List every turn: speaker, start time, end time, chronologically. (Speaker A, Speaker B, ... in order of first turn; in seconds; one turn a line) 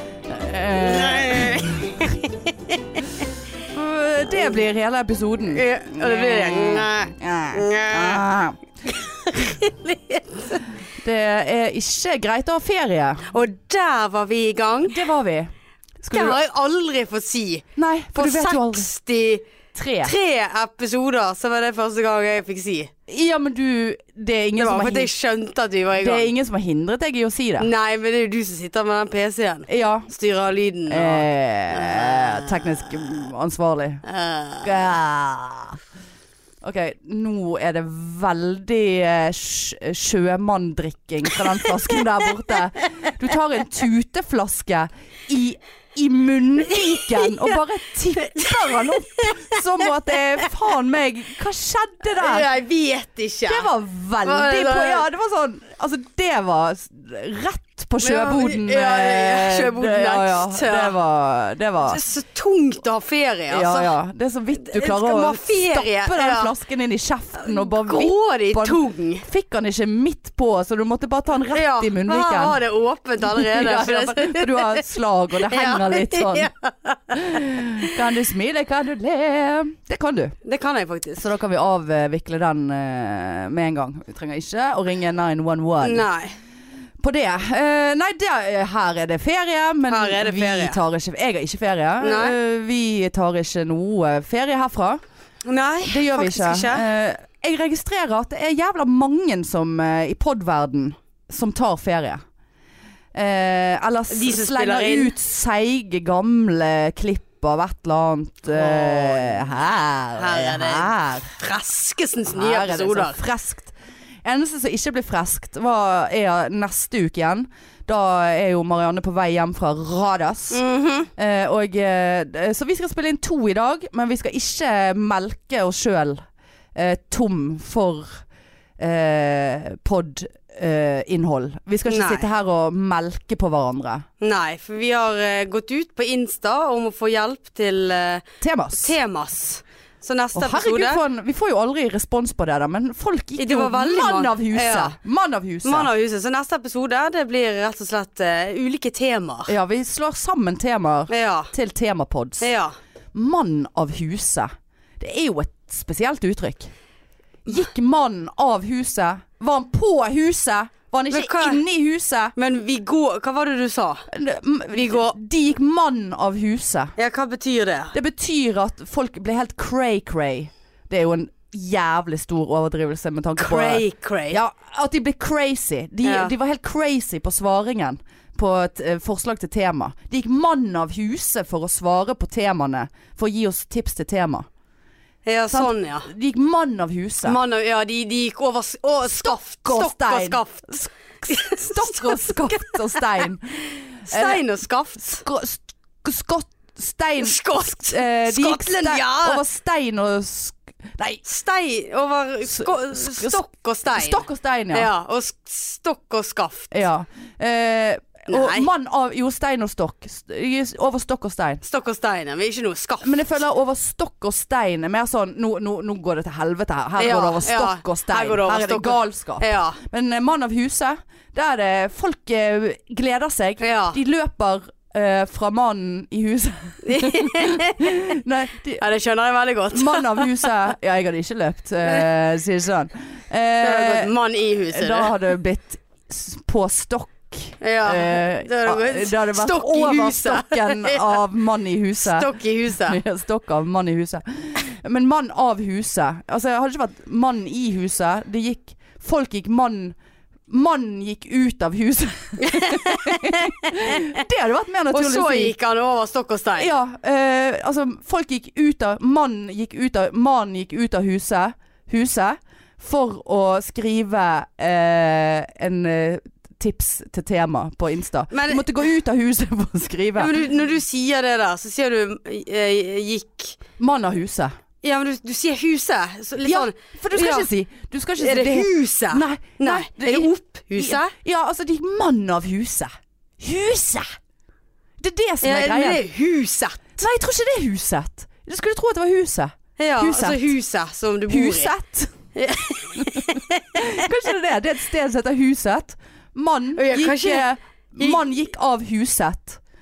Speaker A: 0.3-2.1
Speaker B: 0.8-3.0
Speaker A: 3.7-8.6
Speaker B: 5.5-8.2
Speaker B: 8.9-10.6
Speaker A: 11.0-13.2
Speaker B: 13.3-15.0
Speaker A: 14.8-16.4
Speaker B: 16.1-19.4
Speaker A: 17.8-18.9
Speaker A: 19.7-20.1
Speaker B: 20.0-22.9
Speaker A: 23.1-25.1
Speaker B: 24.6-26.3
Speaker A: 26.0-27.7
Speaker B: 27.6-32.9
Speaker A: 29.7-30.1
Speaker A: 30.9-34.0
Speaker B: 34.0-34.7
Speaker A: 34.6-35.8
Speaker A: 36.6-52.5
Speaker B: 47.1-47.6
Speaker B: 48.2-49.6
Speaker B: 52.1-53.7
Speaker A: 53.5-62.0
Speaker B: 54.2-55.0
Speaker B: 58.0-60.9
Speaker B: 61.8-63.9
Speaker A: 63.5-72.6
Speaker B: 64.5-66.5
Speaker B: 67.4-69.2
Speaker B: 71.5-78.0
Speaker A: 73.2-76.5
Speaker A: 77.1-80.3
Speaker B: 80.4-81.2
Speaker A: 81.2-86.0
Speaker B: 85.8-86.3
Speaker A: 87.0-95.0
Speaker B: 89.9-90.8
Speaker B: 92.0-92.3
Speaker B: 95.5-96.8
Speaker A: 95.8-102.2
Speaker A: 103.1-111.3
Speaker B: 104.1-105.1
Speaker B: 108.5-109.5
Speaker B: 110.2-113.2
Speaker A: 112.3-113.7
Speaker A: 114.2-120.6
Speaker B: 120.5-121.1
Speaker A: 121.2-126.2
Speaker A: 126.7-128.2
Speaker A: 128.8-134.1
Speaker B: 131.8-132.2
Speaker B: 134.2-141.0
Speaker A: 138.4-138.9
Speaker A: 140.3-145.9
Speaker B: 143.4-144.9
Speaker B: 145.6-149.5
Speaker A: 149.5-152.5
Speaker B: 151.1-151.5
Speaker B: 152.4-152.7
Speaker A: 153.1-156.7
Speaker A: 157.4-162.3
Speaker B: 161.1-161.6
Speaker B: 162.3-164.1
Speaker A: 164.1-166.9
Speaker B: 164.7-165.2
Speaker B: 167.0-167.9
Speaker A: 167.9-184.5
Speaker B: 173.4-174.4
Speaker B: 176.0-176.3
Speaker B: 185.2-186.1
Speaker A: 185.5-187.4
Speaker B: 187.2-190.7
Speaker A: 189.1-194.4
Speaker B: 191.3-193.0
Speaker B: 194.1-195.2
Speaker A: 195.0-201.2
Speaker B: 197.2-199.4
Speaker B: 201.2-206.8
Speaker A: 202.5-203.4
Speaker A: 203.9-204.9
Speaker A: 206.7-211.6
Speaker B: 208.3-208.7
Speaker B: 211.6-213.3
Speaker A: 213.0-228.8
Speaker B: 217.0-219.8
Speaker B: 223.6-224.0
Speaker B: 226.8-227.9
Speaker B: 228.8-230.4
Speaker A: 229.7-234.1
Speaker B: 231.8-232.1
Speaker B: 233.6-235.1
Speaker A: 234.7-249.9
Speaker B: 237.6-241.2
Speaker B: 242.0-243.0
Speaker A: 250.5-255.5
Speaker B: 252.4-254.0
Speaker B: 254.9-256.7
Speaker A: 256.6-270.3
Speaker B: 268.3-268.7
Speaker B: 270.2-273.6
Speaker A: 273.8-274.5
Speaker B: 274.8-277.5
Speaker A: 276.4-282.9
Speaker B: 278.2-281.1
Speaker A: 283.4-284.1
Speaker A: 285.0-286.0
Speaker B: 285.4-286.9
Speaker A: 287.0-290.5
Speaker B: 289.8-291.7
Speaker A: 291.3-292.1
Speaker B: 292.3-294.0
Speaker A: 292.9-299.6
Speaker B: 296.8-297.5